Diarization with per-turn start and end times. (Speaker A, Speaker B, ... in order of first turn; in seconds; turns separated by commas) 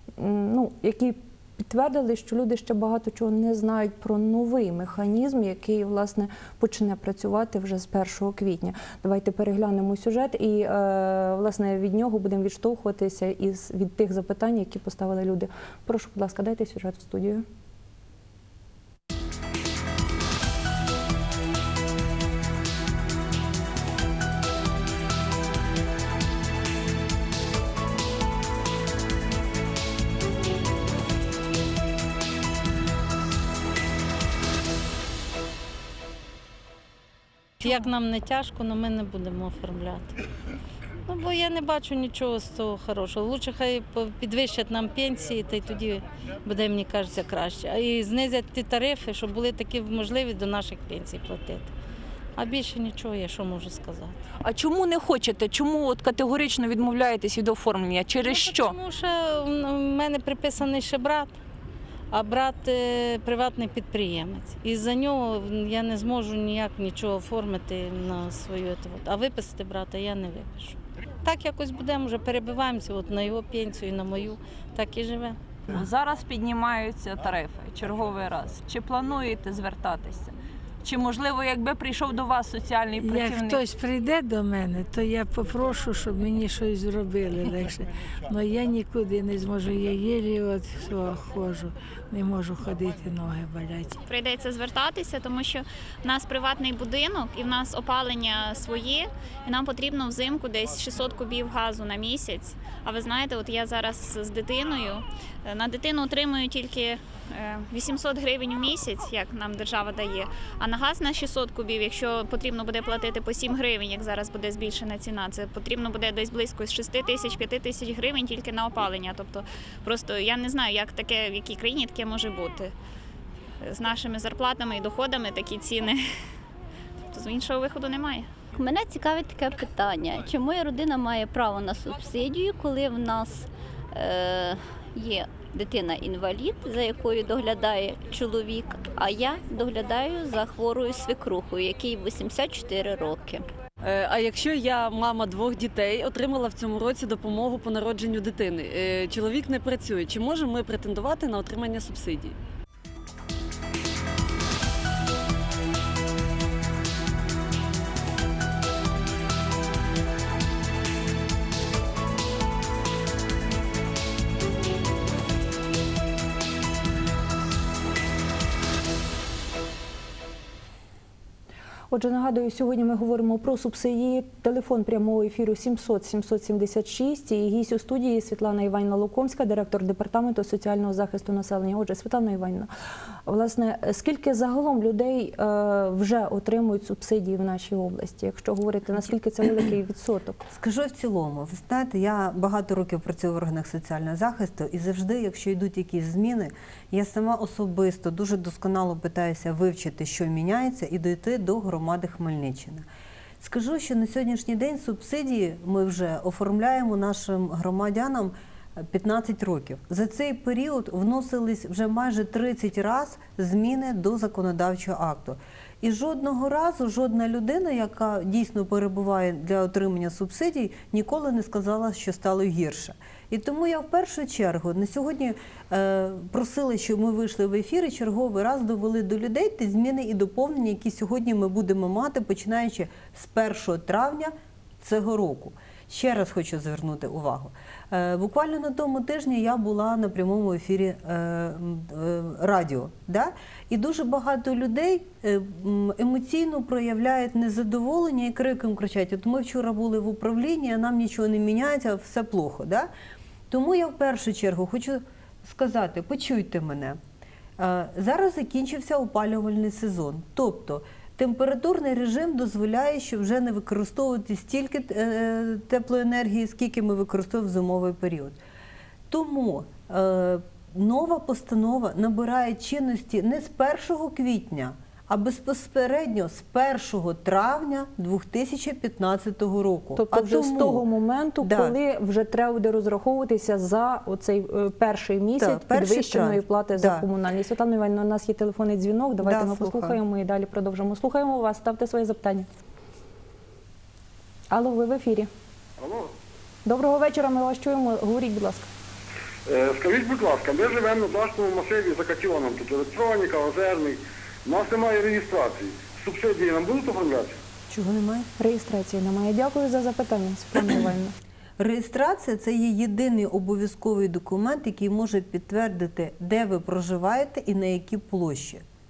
Speaker A: 0.2-17.4, Speaker B: 37.6-40.1, Speaker B: 41.1-51.7, Speaker B: 52.4-54.2, Speaker C: 54.4-58.8, Speaker B: 58.2-61.4, Speaker B: 62.1-75.4, Speaker C: 75.7-80.3, Speaker C: 80.8-83.6, Speaker D: 83.0-94.0, Speaker E: 94.1-122.7, Speaker E: 123.6-126.0, Speaker E: 127.1-128.3, Speaker F: 128.5-143.4, Speaker G: 143.8-152.4, Speaker A: 171.9-182.7, Speaker A: 183.3-190.4, Speaker H: 190.5-202.9, Speaker H: 203.4-252.9, Speaker H: 253.5-257.0, Speaker H: 257.6-268.4, Speaker H: 269.1-280.8, Speaker A: 279.9-292.5, Speaker H: 281.4-281.8, Speaker H: 285.4-287.1, Speaker H: 289.2-290.0, Speaker A: 294.5-295.3, Speaker I: 295.8-296.1, Speaker A: 296.6-298.7, Speaker I: 299.4-307.4, Speaker H: 307.7-308.3, Speaker A: 308.4-311.1, Speaker H: 311.6-318.6